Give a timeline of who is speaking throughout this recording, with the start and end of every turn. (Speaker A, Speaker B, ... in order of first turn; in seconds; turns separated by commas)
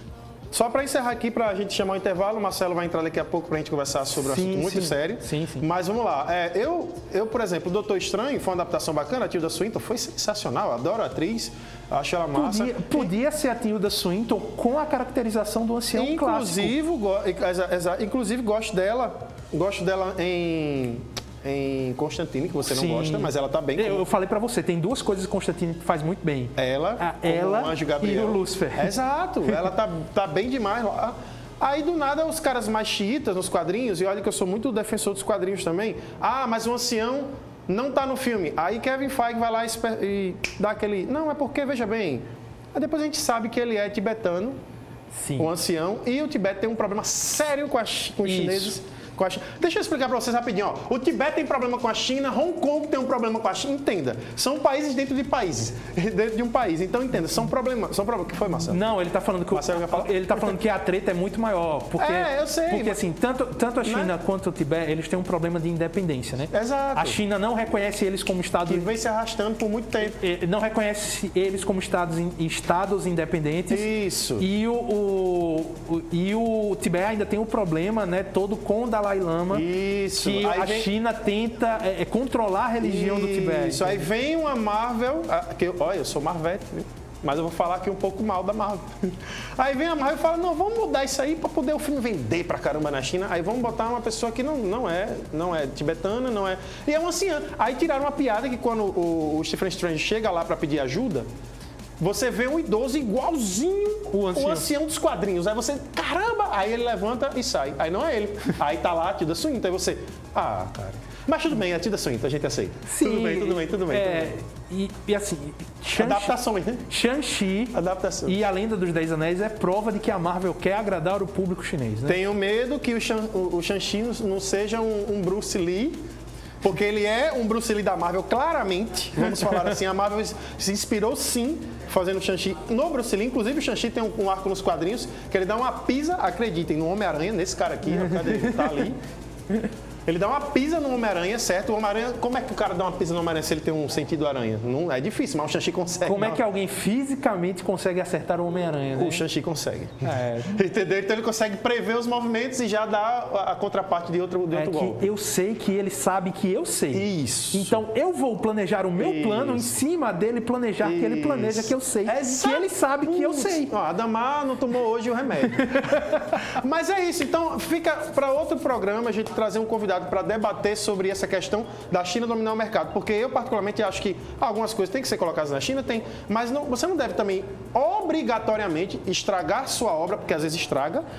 Speaker A: 0.5-13.1, Speaker B: 4.1-5.7, Speaker B: 12.3-16.7, Speaker A: 15.9-24.0, Speaker B: 22.6-28.9, Speaker A: 26.6-44.6, Speaker B: 45.1-45.5, Speaker A: 45.4-58.8, Speaker B: 48.2-48.8, Speaker B: 58.6-68.9, Speaker A: 59.5-60.5, Speaker A: 62.0-63.0, Speaker A: 63.8-64.1, Speaker A: 66.5-67.2, Speaker A: 68.7-70.2, Speaker B: 70.0-73.9, Speaker A: 73.7-74.5, Speaker B: 74.4-79.7, Speaker A: 79.5-80.9, Speaker B: 80.2-84.1, Speaker A: 82.8-101.2, Speaker A: 102.0-114.3, Speaker B: 104.1-104.7, Speaker B: 112.8-116.4, Speaker A: 115.9-116.8, Speaker B: 116.9-122.2, Speaker A: 117.7-118.4, Speaker A: 122.0-126.0, Speaker A: 126.6-139.0, Speaker B: 138.0-138.8, Speaker A: 140.1-146.4, Speaker B: 146.0-149.2, Speaker A: 149.0-155.0, Speaker B: 150.0-150.6, Speaker B: 154.5-163.7, Speaker A: 156.9-157.8, Speaker A: 159.0-159.8, Speaker A: 160.8-181.0, Speaker B: 165.7-166.4